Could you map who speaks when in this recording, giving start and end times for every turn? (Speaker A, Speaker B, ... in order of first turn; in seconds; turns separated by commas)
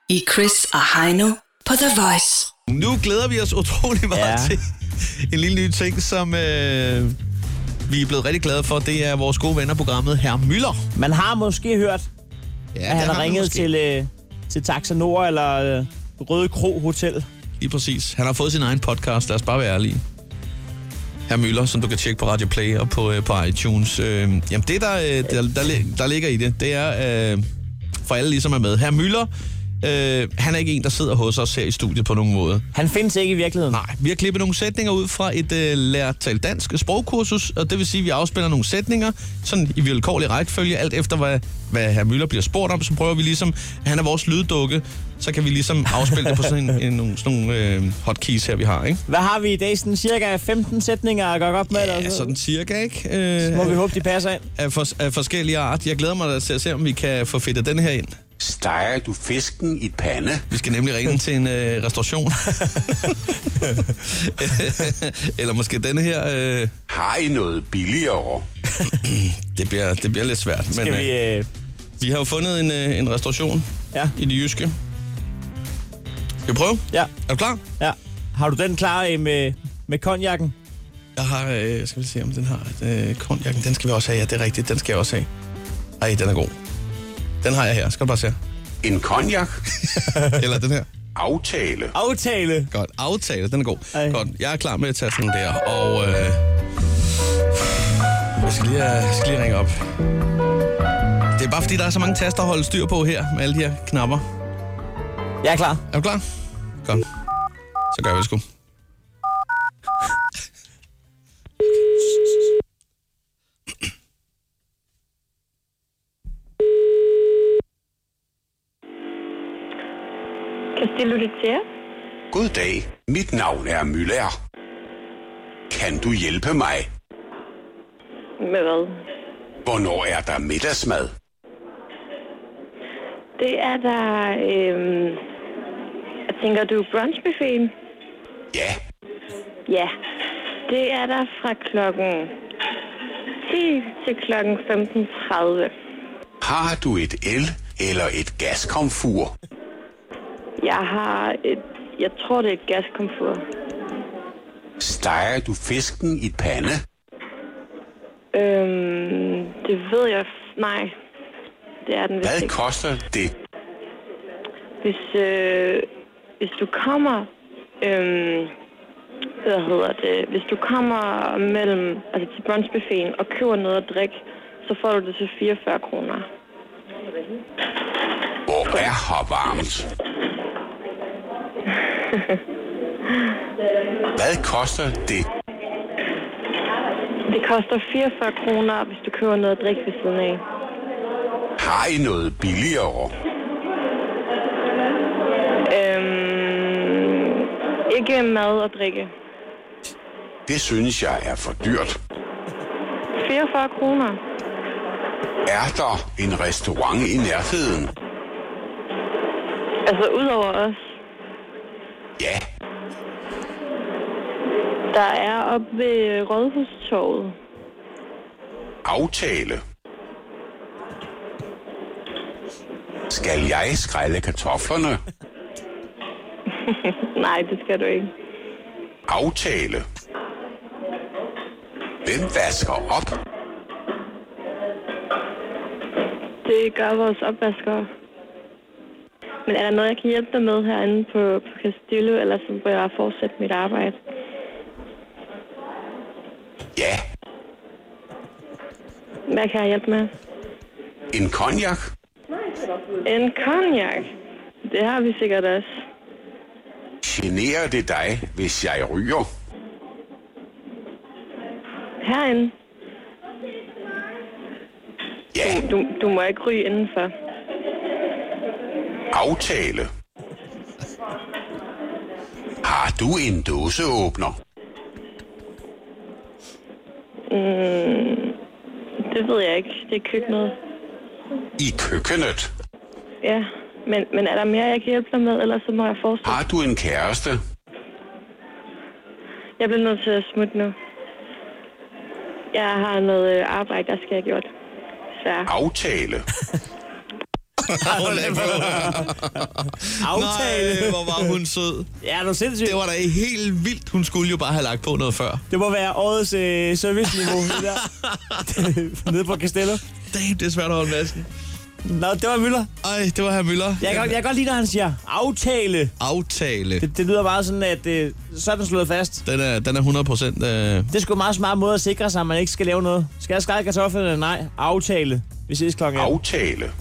Speaker A: 0.1-2.5, Speaker B: 2.7-7.2, Speaker C: 4.1-4.6, Speaker B: 7.9-10.8, Speaker C: 11.0-12.1, Speaker B: 12.8-13.7, Speaker C: 12.9-17.2, Speaker B: 17.6-20.0, Speaker B: 21.3-27.4, Speaker B: 28.0-29.3, Speaker B: 29.8-32.6, Speaker C: 32.8-33.8, Speaker B: 33.7-49.0, Speaker C: 49.1-52.3, Speaker B: 51.7-54.0, Speaker C: 53.4-54.5, Speaker B: 54.6-58.1, Speaker D: 58.4-60.5, Speaker B: 60.5-66.7, Speaker D: 66.9-68.5, Speaker B: 68.9-71.1, Speaker C: 70.7-71.5, Speaker B: 72.0-74.7, Speaker B: 76.5-77.6, Speaker C: 77.8-80.5, Speaker B: 81.2-85.3, Speaker B: 86.0-86.5, Speaker B: 87.4-88.4, Speaker D: 88.8-89.5, Speaker B: 89.7-90.9, Speaker D: 91.2-91.9, Speaker C: 91.9-92.7, Speaker B: 92.7-96.4, Speaker B: 98.4-99.7, Speaker B: 101.4-104.2, Speaker C: 105.4-105.8, Speaker B: 105.9-106.2, Speaker B: 107.9-108.4, Speaker E: 120.8-121.6, Speaker D: 122.3-124.3, Speaker D: 125.7-126.9, Speaker E: 128.4-128.9, Speaker D: 129.7-131.1, Speaker E: 133.4-135.2, Speaker E: 136.3-137.7, Speaker E: 140.7-142.3, Speaker E: 143.4-145.7, Speaker D: 146.4-149.3, Speaker E: 150.6-153.4, Speaker D: 154.8-156.8, Speaker E: 158.3-160.9, Speaker E: 161.8-162.6, Speaker D: 162.2-163.3, Speaker E: 164.8-165.9, Speaker E: 166.4-168.5, Speaker E: 169.4-176.3, Speaker D: 178.5-179.9, Speaker E: 182.0-182.4, Speaker D: 184.2-185.3, Speaker E: 187.3-190.4, Speaker D: 191.6-193.1, Speaker E: 195.7-199.1, Speaker D: 200.5-202.0, Speaker E: 203.2-204.2, Speaker D: 205.5-207.9, Speaker E: 209.8-210.8, Speaker E: 214.9-217.4, Speaker D: 218.8-219.6, Speaker D: 223.1-225.0, Speaker E: 226.6-228.1, Speaker D: 229.1-229.8, Speaker D: 232.1-233.1, Speaker E: 236.4-237.9, Speaker E: 239.4-244.0, Speaker D: 246.8-247.0, Speaker E: 249.3-250.1, Speaker D: 251.1-251.8, Speaker E: 253.0-254.1, Speaker E: 254.7-255.7, Speaker D: 257.0-259.3, Speaker E: 262.0-262.5, Speaker D: 265.3-265.6, Speaker E: 265.4-267.1, Speaker D: 269.1-269.9, Speaker D: 272.6-274.4, Speaker E: 277.3-278.4, Speaker E: 279.0-280.6, Speaker D: 281.6-282.5, Speaker E: 283.2-286.4, Speaker D: 286.3-287.4, Speaker E: 289.6-290.8, Speaker E: 292.5-294.5, Speaker E: 295.1-295.5, Speaker D: 295.5-296.3, Speaker B: 297.6-301.9, Speaker C: 297.8-299.1, Speaker C: 300.0-301.1, Speaker C: 302.0-302.8, Speaker B: 302.6-305.4, Speaker C: 305.5-307.9, Speaker B: 307.2-308.6, Speaker C: 308.4-309.8, Speaker B: 310.1-311.3, Speaker C: 311.9-312.7, Speaker B: 312.8-314.2, Speaker C: 313.8-315.9, Speaker B: 316.0-316.9, Speaker C: 316.8-319.2, Speaker B: 319.3-320.9, Speaker C: 320.9-326.1, Speaker D: 325.9-326.7